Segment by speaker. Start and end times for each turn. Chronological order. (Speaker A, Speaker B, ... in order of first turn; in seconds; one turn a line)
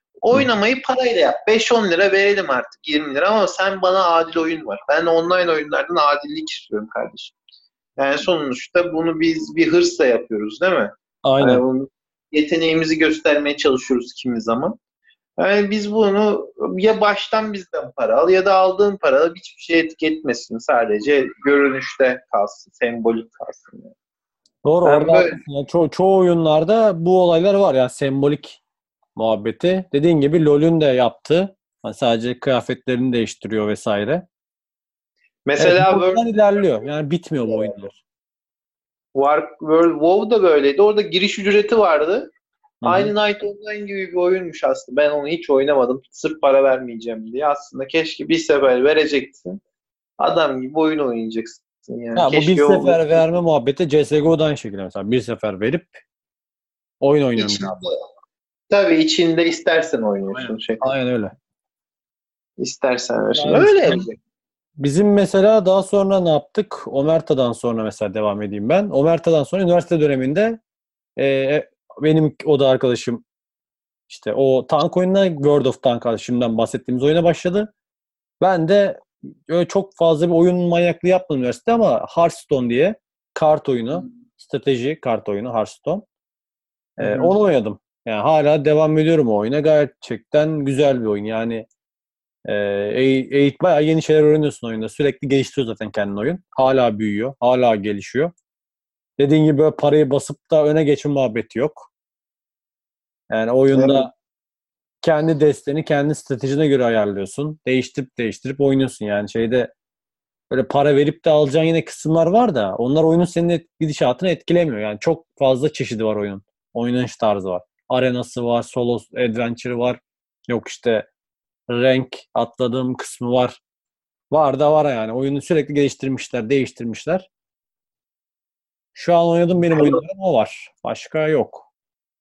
Speaker A: 0.2-7.3
Speaker A: 8.0-14.8
Speaker B: 11.2-11.6
Speaker A: 15.4-23.9
Speaker B: 24.6-28.6
Speaker A: 24.8-25.4
Speaker B: 29.1-34.2
Speaker A: 35.5-36.2
Speaker B: 35.6-38.0
Speaker A: 39.1-42.3
Speaker B: 42.8-43.1
Speaker A: 42.8-49.6
Speaker A: 50.2-53.2
Speaker B: 52.1-56.0
Speaker B: 57.0-57.8
Speaker A: 57.4-57.9
Speaker A: 58.7-60.8
Speaker B: 60.3-61.3
Speaker A: 62.6-64.2
Speaker B: 63.3-64.0
Speaker B: 64.8-70.6
Speaker B: 71.2-73.2
Speaker B: 74.1-77.7
Speaker B: 78.4-86.0
Speaker B: 87.0-91.7
Speaker A: 87.0-87.3
Speaker B: 92.5-98.3
Speaker B: 99.2-101.9
Speaker B: 103.3-104.1
Speaker A: 103.7-104.1
Speaker B: 105.0-109.7
Speaker B: 110.5-121.1
Speaker B: 121.7-123.6
Speaker B: 124.3-127.3
Speaker B: 128.9-131.7
Speaker A: 129.7-130.0